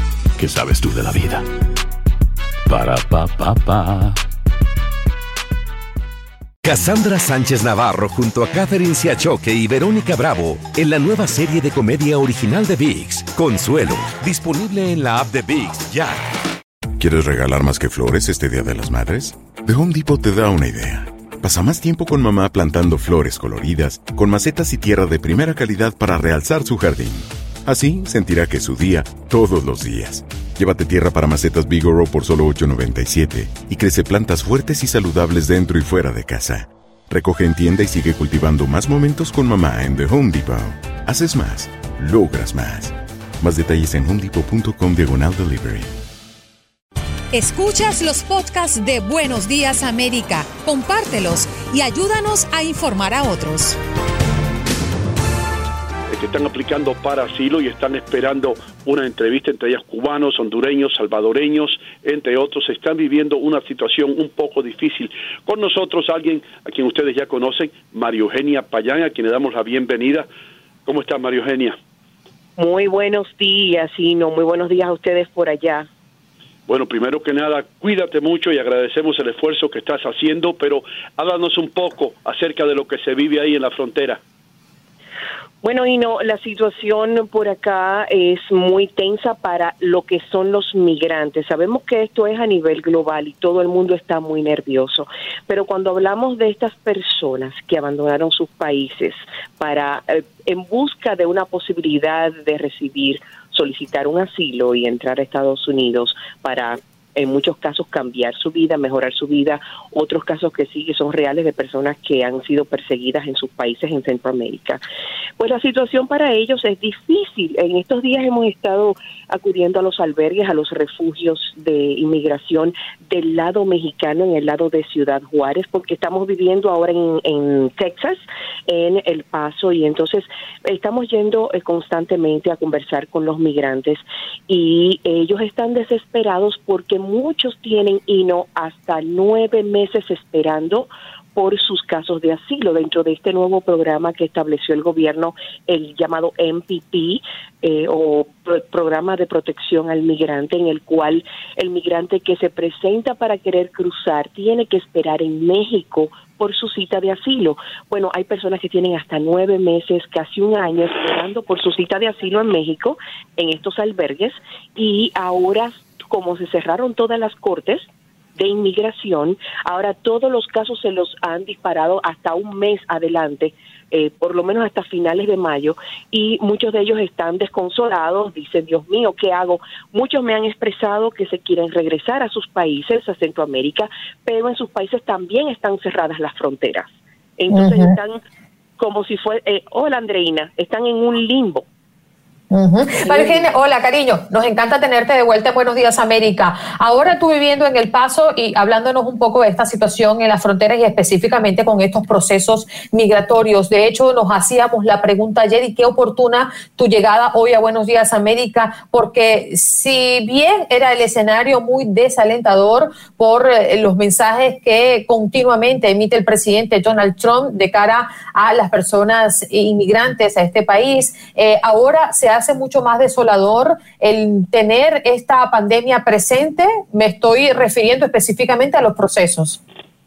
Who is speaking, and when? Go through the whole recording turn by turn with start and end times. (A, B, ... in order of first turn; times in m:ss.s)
0:00.4-0:01.4 A
0:02.7-0:04.2 A
0:06.6-0:16.2 B
0:17.0-0:45.9 C
0:47.3-0:53.8 D
0:56.1-1:10.3 E
1:10.8-1:11.8 E
1:12.6-1:15.9 F
1:16.7-1:24.2 E
1:25.6-1:54.8 F
1:55.4-3:08.2 F
3:07.5-3:07.9 G
3:08.8-3:11.7 F
3:12.5-3:49.6 G
3:13.0-3:13.4 F